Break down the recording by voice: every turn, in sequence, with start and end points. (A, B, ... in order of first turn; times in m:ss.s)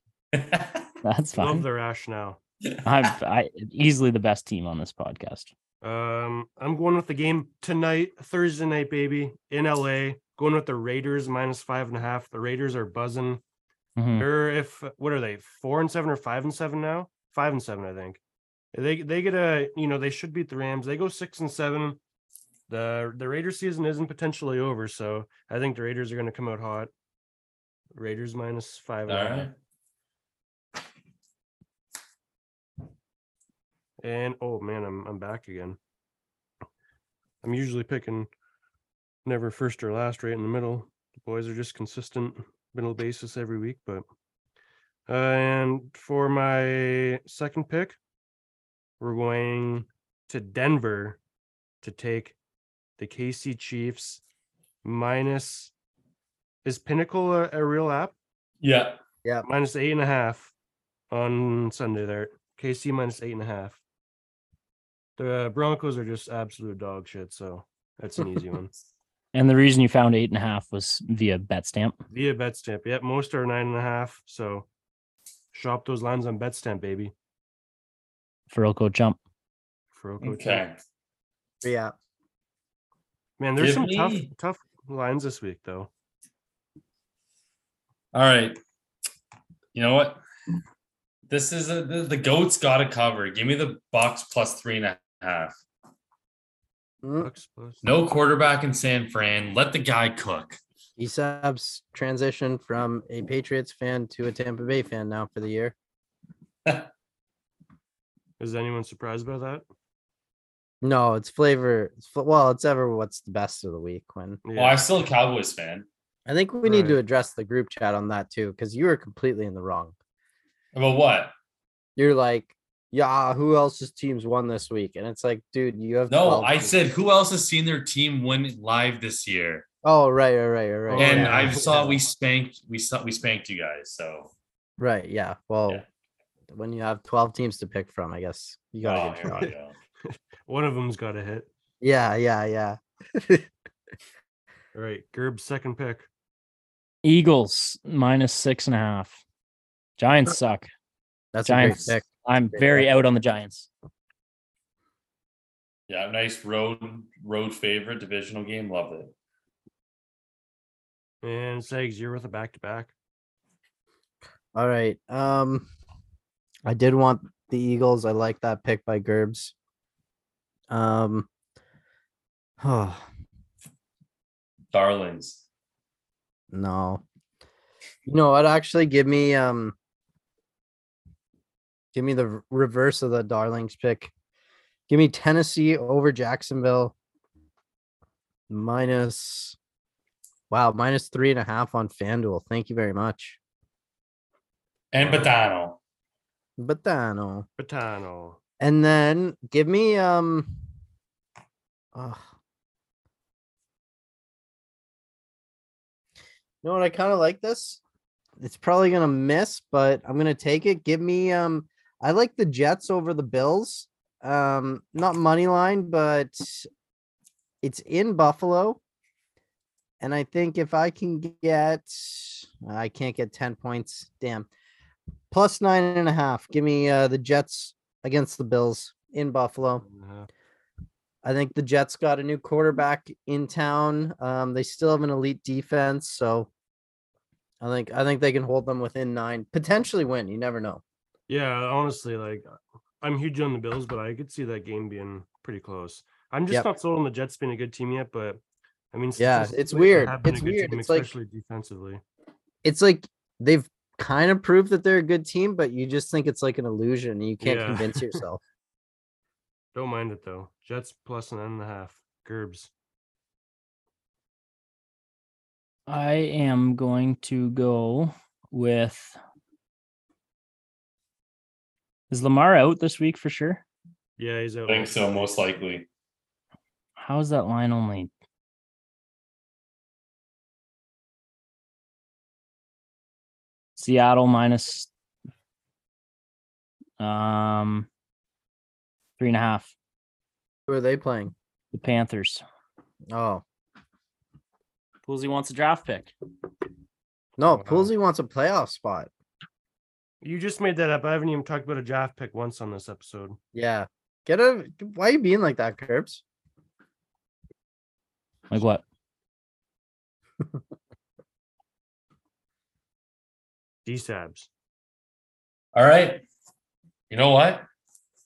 0:00.3-0:00.9 A
0:01.0-0:01.7 B
0:01.4-0:02.4 C
0:02.8-0:05.5 B
0:05.8-0:13.4 C
0:14.0-0:14.3 B
0:14.2-0:18.2 C
0:18.7-0:22.0 C
0:22.7-0:26.9 C
0:27.9-0:29.5 C
0:29.1-0:29.5 A
0:34.0-0:35.8 C
0:37.4-0:38.3 C
0:39.2-0:44.0 C
0:45.1-0:48.0 C
0:49.0-0:51.2 C
0:51.8-0:52.4 C
0:53.0-0:54.2 C
0:54.8-0:55.7 C
0:56.6-0:58.2 C
0:58.6-0:59.0 A
0:59.4-1:00.5 C
1:01.1-1:03.8 C
1:05.2-1:08.7 C
1:09.3-1:12.0 B
1:12.1-1:14.7 C
1:15.5-1:17.1 C
1:18.5-1:19.2 B
1:19.9-1:20.6 C
1:20.2-1:20.8 A
1:21.6-1:21.9 D
1:23.4-1:25.9 C
1:23.6-1:24.3 A
1:28.1-1:28.6 A
1:29.7-1:30.2 A
1:31.3-1:35.5 A
1:37.0-1:37.3 D
1:37.2-1:37.8 C
1:37.8-1:40.6 A
1:41.0-1:45.8 D
1:46.6-1:46.9 A
1:48.4-1:49.6 C
1:50.8-1:54.4 D
1:54.4-1:54.8 C
1:54.6-1:55.9 A
1:56.3-1:59.9 D
1:56.6-1:57.0 C
2:00.7-2:01.3 A
2:02.0-2:06.8 D
2:06.1-2:09.6 A
2:09.8-2:11.7 D
2:10.9-2:12.0 C
2:11.0-2:14.3 A
2:14.8-2:15.8 D
2:16.5-2:19.5 D
2:18.8-2:19.8 A
2:20.0-2:21.5 C
2:21.8-2:23.5 D
2:24.7-2:26.1 C
2:27.0-2:29.2 B
2:30.0-2:30.7 B
2:31.3-2:32.9 D
2:31.4-2:33.7 B
2:35.9-2:39.1 A
2:41.2-2:42.9 C
2:44.5-2:45.7 D
2:46.7-2:49.5 D
2:50.7-2:51.3 D
2:52.6-2:53.0 D
2:54.7-2:55.4 A
2:56.5-2:57.0 D
2:58.1-2:59.8 D
3:01.9-3:04.1 D
3:04.9-3:06.9 D
3:08.5-3:09.6 D
3:10.5-3:13.4 D
3:14.9-3:15.8 A
3:15.0-3:15.3 C
3:16.6-3:17.5 D
3:17.6-3:18.4 C
3:18.6-3:20.6 D
3:21.9-3:22.2 D
3:26.6-3:27.8 D
3:28.4-3:36.7 D
3:37.6-3:38.8 D
3:40.0-3:44.5 D
3:45.3-3:49.8 D
3:49.8-3:50.3 C
3:51.2-3:56.5 D
3:57.6-4:00.8 D
4:01.3-4:08.4 C
4:08.9-4:12.0 C
4:09.2-4:11.1 D
4:12.6-4:18.4 D
4:17.4-4:18.2 C
4:19.7-4:22.7 C
4:25.9-4:29.2 B
4:32.1-4:33.6 B
4:34.2-4:35.0 C
4:34.7-4:35.9 A
4:37.0-4:38.1 B
4:43.8-4:44.9 B
4:47.0-4:47.9 B
4:49.2-4:49.7 B
4:50.7-4:51.3 D
4:51.7-4:52.4 B
4:53.1-4:53.4 D
4:55.1-4:56.1 B
4:57.4-4:59.1 D
4:57.4-4:57.9 C
5:00.2-5:03.4 C
5:03.5-5:06.2 D
5:08.5-5:08.8 B
5:13.8-5:14.5 C
5:15.7-5:16.2 A
5:17.1-5:17.6 A